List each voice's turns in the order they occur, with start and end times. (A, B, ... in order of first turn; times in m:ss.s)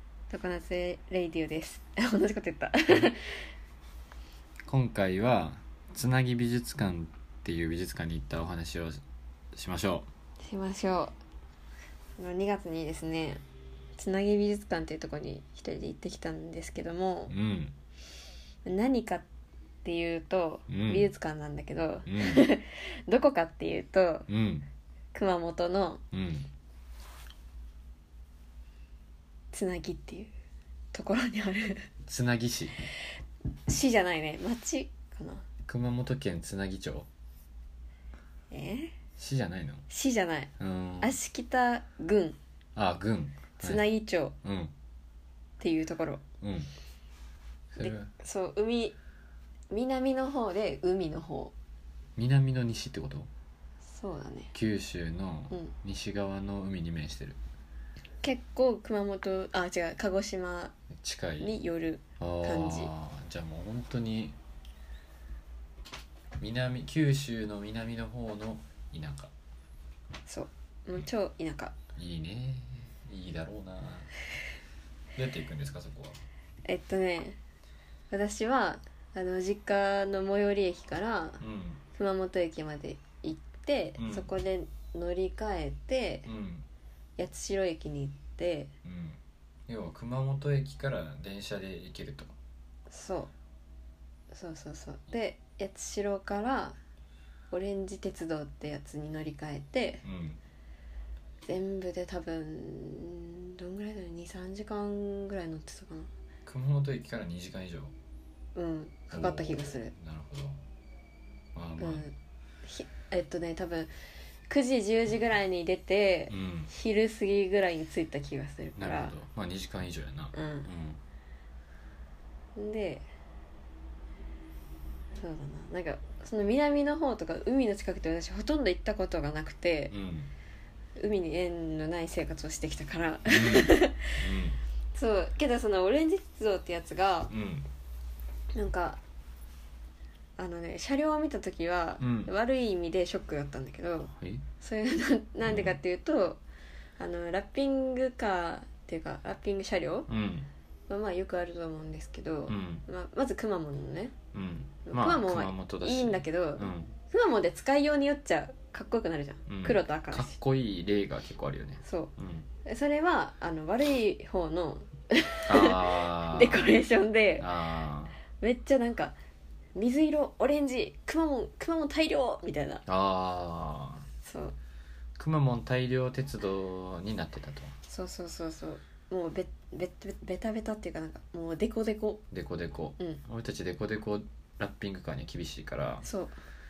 0:00.3-0:03.4 A
0:04.7-0:09.0 B
0:09.5-0:10.1 B
0:10.4-0:11.1 A
0:12.2-0:13.4 A
0:14.0-0:17.3 A
0:17.3-0:17.8 B
0:18.6-0:19.2 A
0:19.8-0:24.3 A
0:20.7-0:21.1 B
0:22.1-0:22.4 B
0:24.3-0:24.7 B
0:25.1-0:26.0 A
0:26.1-0:26.5 B
0:29.5-0:30.3 A
0:30.9-0:31.9 A
0:32.1-0:32.8 B
0:33.7-0:35.4 A
0:35.7-0:37.1 B
0:38.5-0:39.0 A
0:39.2-0:39.8 B
0:39.9-0:42.4 A
0:40.6-0:41.2 B
0:42.8-0:43.8 B
0:43.6-0:44.3 A
0:44.4-0:44.7 B
0:45.6-0:46.2 A
0:46.4-0:46.7 B
0:47.7-0:48.1 B
0:47.8-0:49.0 A
0:49.7-0:51.5 A
0:52.2-0:53.3 B
0:53.9-0:54.5 A
0:54.5-0:57.4 B
0:58.2-1:00.8 A
1:00.9-1:01.5 B
1:01.4-1:02.9 A
1:02.2-1:04.4 B
1:06.4-1:09.3 B
1:10.3-1:11.8 A
1:12.0-1:14.1 B
1:15.2-1:16.2 B
1:16.7-1:17.4 A
1:18.1-1:21.4 A
1:21.4-1:21.8 B
1:22.0-1:26.3 A
1:24.0-1:24.3 B
1:26.2-1:26.7 B
1:27.2-1:28.7 A
1:28.8-1:32.3 B
1:32.9-1:33.3 A
1:34.3-1:36.8 A
1:37.5-1:40.0 A
1:40.0-1:40.4 B
1:41.4-1:46.1 A
1:46.4-1:47.9 B
1:48.6-1:49.9 A
1:49.1-1:50.6 B
1:51.6-1:52.0 B
1:51.8-1:52.1 A
1:52.6-1:53.9 A
1:54.5-1:59.1 A
1:56.3-1:56.7 B
1:58.8-2:01.0 B
2:00.3-2:00.7 A
2:02.6-2:03.0 A
2:05.2-2:10.0 A
2:09.9-2:10.3 B
2:11.0-2:14.2 A
2:13.3-2:14.6 B
2:15.0-2:17.3 A
2:17.3-2:17.7 B
2:18.6-2:19.0 A
2:20.4-2:26.4 A
2:22.0-2:22.3 B
2:24.1-2:24.4 B
2:25.4-2:25.8 B
2:27.0-2:30.1 A
2:30.1-2:30.5 B
2:30.9-2:34.2 A
2:32.5-2:32.8 B
2:34.3-2:37.0 B
2:34.9-2:40.3 A
2:39.5-2:42.5 B
2:41.8-2:42.1 A
2:42.6-2:47.5 A
2:45.5-2:46.7 B
2:47.4-2:48.2 B
2:48.4-2:49.2 A
2:49.8-2:52.8 A
2:52.9-2:54.1 B
2:54.2-2:54.6 A
2:55.2-2:57.7 B
2:57.9-3:02.2 A
3:02.3-3:06.1 B
3:06.0-3:06.4 A